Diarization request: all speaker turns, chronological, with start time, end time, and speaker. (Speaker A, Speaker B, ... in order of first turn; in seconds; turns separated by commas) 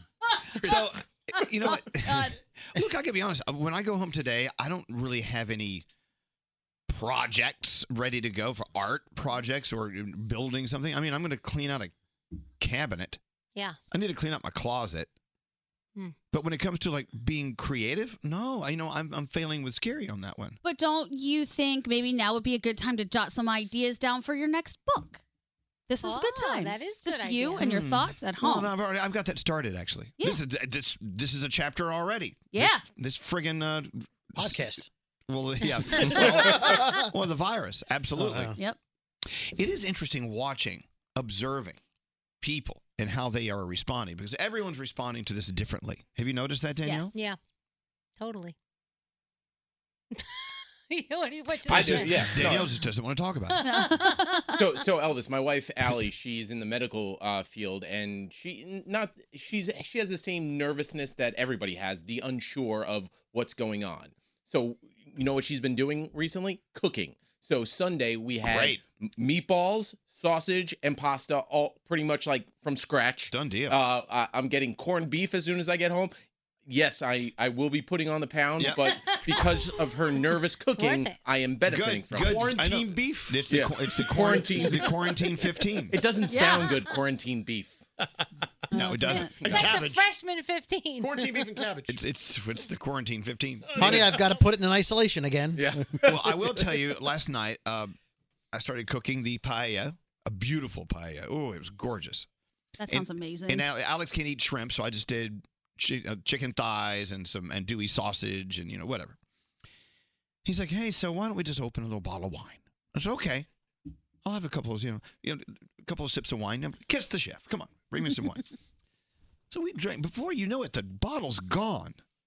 Speaker A: 0.6-5.8, Speaker B: 1.4-2.4, Speaker A: 6.9-11.9, Speaker A: 12.6-13.2, Speaker A: 13.9-15.1, Speaker A: 16.3-20.6, Speaker B: 20.6-25.2, Speaker B: 25.9-28.7, Speaker C: 26.0-27.7, Speaker A: 27.6-34.7, Speaker B: 32.5-32.8, Speaker D: 34.4-34.9, Speaker A: 35.3-38.6, Speaker D: 36.0-37.1, Speaker D: 38.1-38.5, Speaker A: 39.3-41.8, Speaker A: 42.4-47.1, Speaker B: 46.8-47.1, Speaker C: 48.2-48.5, Speaker C: 50.1-52.5, Speaker A: 51.7-53.6, Speaker E: 51.7-52.8, Speaker B: 53.6-54.6, Speaker C: 53.6-54.2, Speaker E: 54.5-76.1, Speaker A: 68.4-68.8, Speaker A: 73.3-73.8, Speaker E: 76.7-82.3, Speaker A: 78.6-79.0, Speaker C: 78.8-79.7, Speaker C: 80.7-81.2, Speaker A: 81.7-86.0, Speaker F: 82.2-83.4, Speaker E: 83.5-85.2, Speaker E: 85.9-87.8, Speaker B: 86.3-86.8, Speaker B: 88.7-89.4, Speaker A: 88.7-89.8, Speaker C: 89.1-91.5, Speaker F: 89.4-90.1, Speaker F: 91.0-92.0, Speaker A: 91.9-93.9, Speaker F: 93.7-94.0, Speaker D: 93.7-96.0, Speaker E: 95.5-96.4, Speaker A: 96.0-97.9, Speaker A: 98.5-102.3, Speaker B: 102.8-103.7, Speaker A: 102.9-109.2, Speaker A: 110.4-113.5, Speaker A: 114.2-118.5, Speaker A: 119.5-122.0